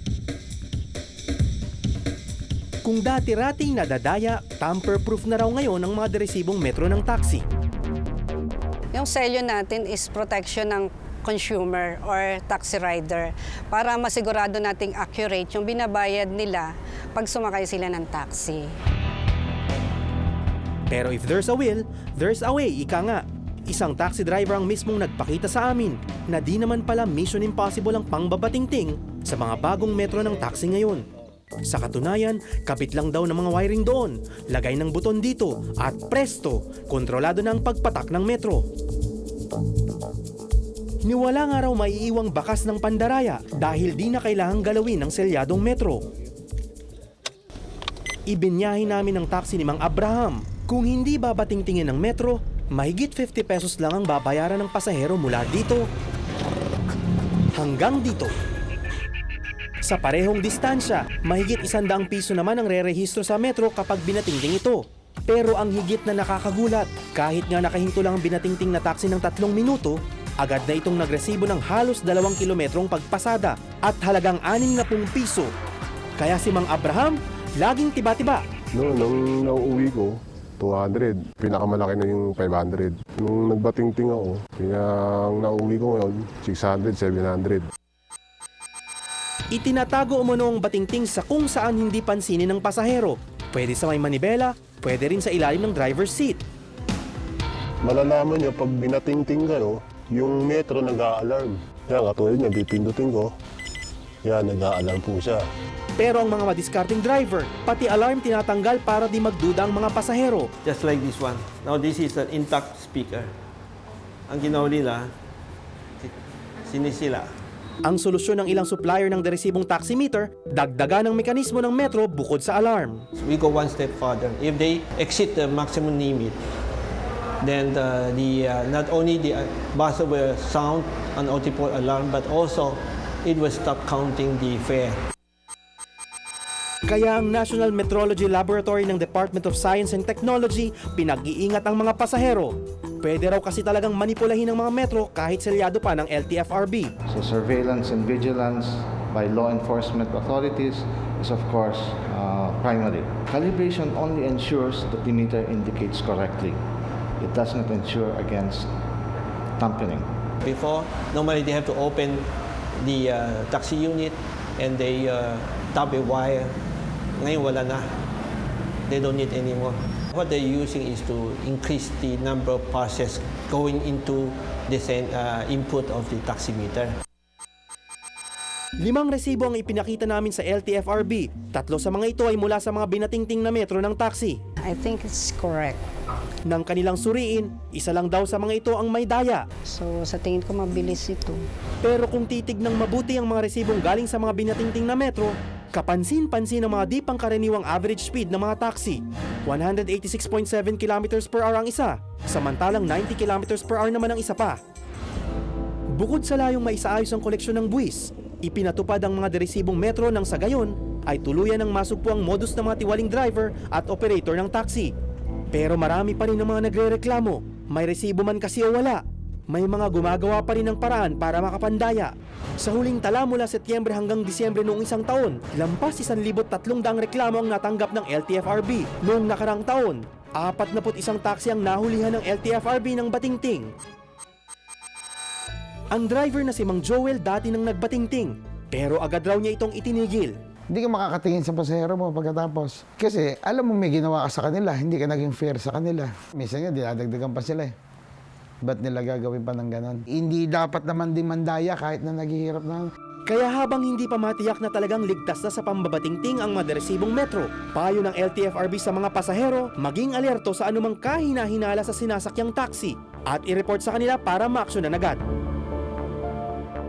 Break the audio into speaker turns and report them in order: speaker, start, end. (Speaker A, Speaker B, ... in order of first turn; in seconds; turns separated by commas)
Speaker A: 2.8-7.4, Speaker B: 8.9-18.7, Speaker A: 20.9-31.0, Speaker A: 31.7-38.7, Speaker A: 41.0-46.0, Speaker A: 48.3-55.9, Speaker A: 57.5-58.3, Speaker A: 59.9-75.5, Speaker A: 76.2-78.4, Speaker C: 78.7-87.7, Speaker A: 89.5-96.4, Speaker C: 97.8-103.3, Speaker C: 104.2-105.5, Speaker A: 106.0-110.5, Speaker D: 110.6-113.3, Speaker D: 114.3-115.1, Speaker D: 116.7-117.3, Speaker A: 117.8-123.0, Speaker D: 123.2-126.4, Speaker D: 127.4-134.9, Speaker A: 136.9-146.9, Speaker E: 147.1-156.6, Speaker E: 157.2-158.7, Speaker E: 159.6-160.1, Speaker D: 160.4-162.2, Speaker D: 162.8-166.5, Speaker D: 167.2-167.9, Speaker D: 168.9-176.9, Speaker A: 178.8-184.4, Speaker B: 184.6-185.8, Speaker A: 186.5-189.4, Speaker B: 189.7-191.4, Speaker A: 191.8-204.6, Speaker A: 205.9-214.9, Speaker A: 215.5-233.7, Speaker A: 235.9-240.3, Speaker F: 240.7-247.7, Speaker F: 248.6-252.9, Speaker A: 253.3-265.2